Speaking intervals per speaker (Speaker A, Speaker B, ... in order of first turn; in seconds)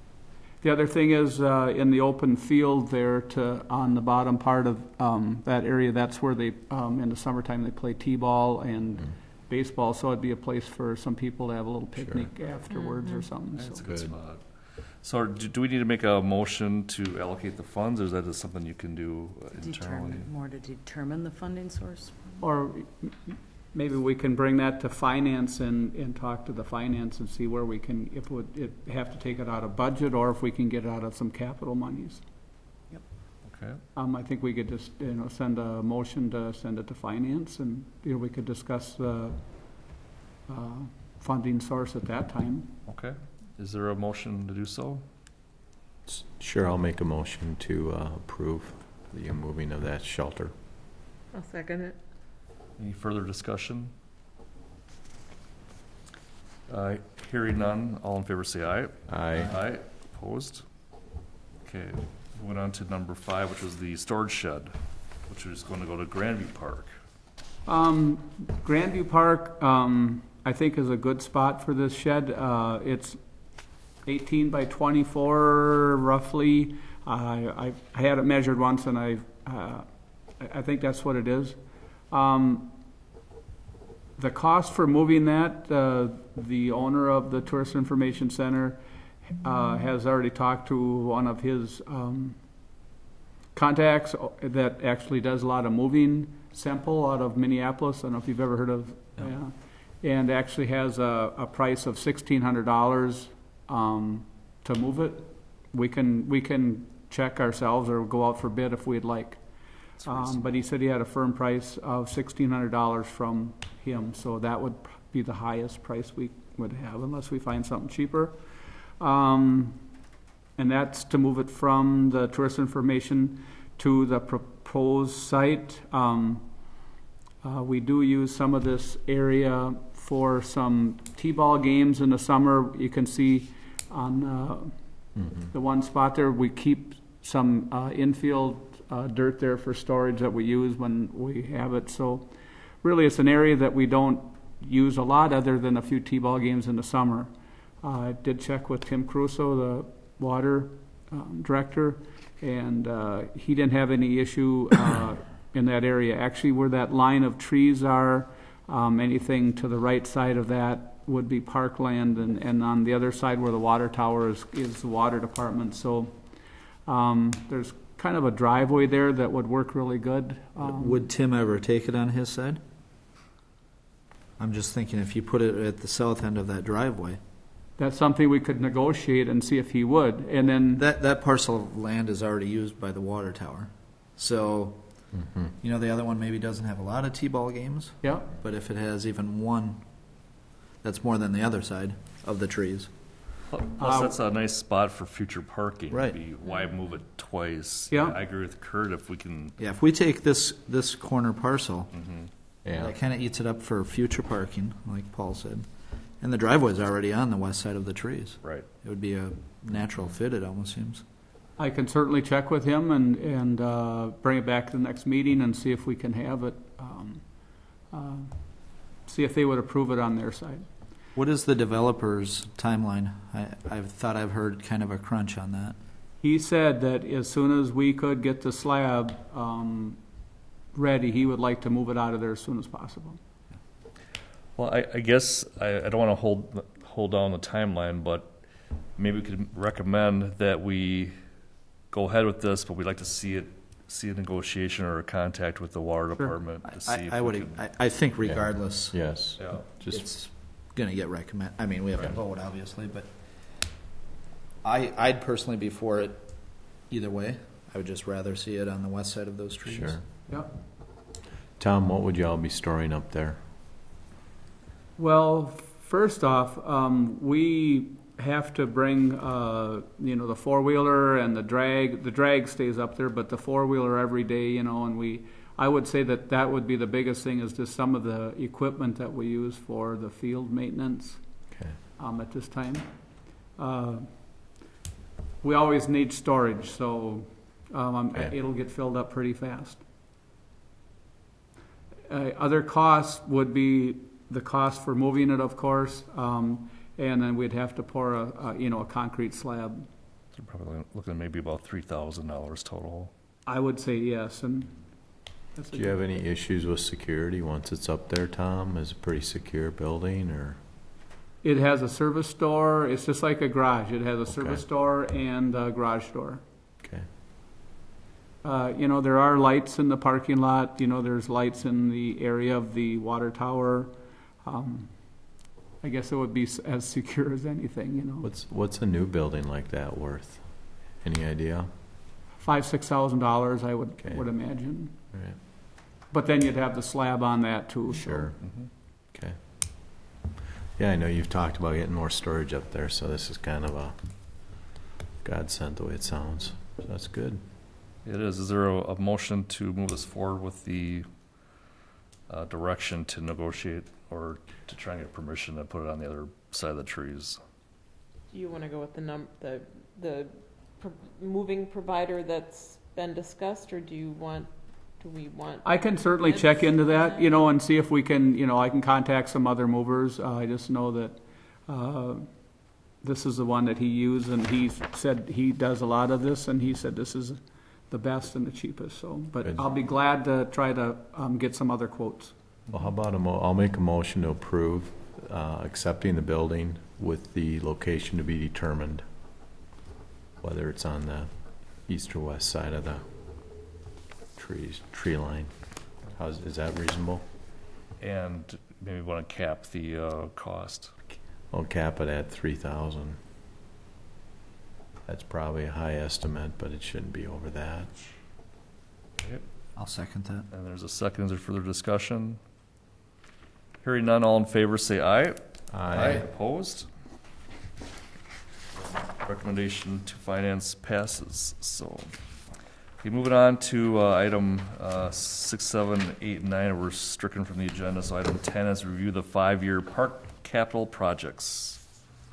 Speaker A: 0.6-13.8, 22.4-32.2, 34.0-39.4, 40.5-42.7, 67.7-73.2, 74.0-79.9, 80.4-81.6, 82.1-82.8, 84.2-88.8, 89.4-92.4, 93.5-109.4, 110.0-118.4, 119.0-119.8, 120.6-126.5, 127.4-134.8, 135.5-142.3, 142.8-147.3, 147.8-166.2, 166.9-171.1, 177.8-180.8, 188.0-188.3, 193.8-194.2, 197.9-198.2, 211.6-217.2, 217.9-218.4, 219.1-220.7, 226.2-230.0, 230.7-233.2, 260.3-260.5, 265.0-281.2, 282.0-282.9, 283.6-284.3, 285.4-289.8, 292.1-299.9, 303.5-304.7, 305.6-306.0, 311.4-316.4, 318.4-323.9, 324.4-325.0, 325.8-328.3, 332.4-334.9, 336.1-338.3, 365.6-372.3, 373.0-382.4
Speaker B: 12.0-12.3, 13.8-14.1, 46.1-50.5, 59.1-59.6, 135.2-135.5, 185.1-185.5, 202.7-202.9, 248.2-250.1, 259.7-260.0, 261.6-263.4, 281.5-281.8, 305.7-310.6, 314.3-314.6, 316.8-317.1, 328.2-330.5, 331.0-331.7, 334.0-334.3, 335.1-335.4, 337.9-338.4, 339.1-339.4, 340.8-344.0, 345.2-347.4, 382.7-389.1, 390.4-391.3, 391.9-393.1, 394.4-395.5, 396.1-397.2, 401.5-403.2, 405.1-407.9, 415.7-416.3
Speaker C: 12.7-13.3, 51.3-52.0, 358.3-367.4
Speaker D: 13.5-20.3, 33.5-33.8, 42.9-45.0, 52.8-53.9, 56.7-60.7, 61.6-64.8, 65.3-66.9, 110.0-110.4, 193.5-199.6, 201.9-202.3, 234.6-238.4, 239.0-241.2, 241.9-247.6, 249.4-249.7, 300.3-303.1, 338.4-338.7, 348.1-351.1, 352.3-357.4, 398.0-401.0, 410.5-412.4, 413.8-416.9, 419.2-422.1, 423.0-431.8
Speaker E: 19.6-22.4
Speaker F: 170.6-172.6, 174.4-177.2, 180.8-184.8, 185.6-189.8, 190.8-192.9, 195.9-196.2, 199.6-201.9, 202.7-205.7, 206.2-211.0, 221.2-225.8, 246.7-249.0, 249.9-253.1, 254.6-260.0, 409.8-410.5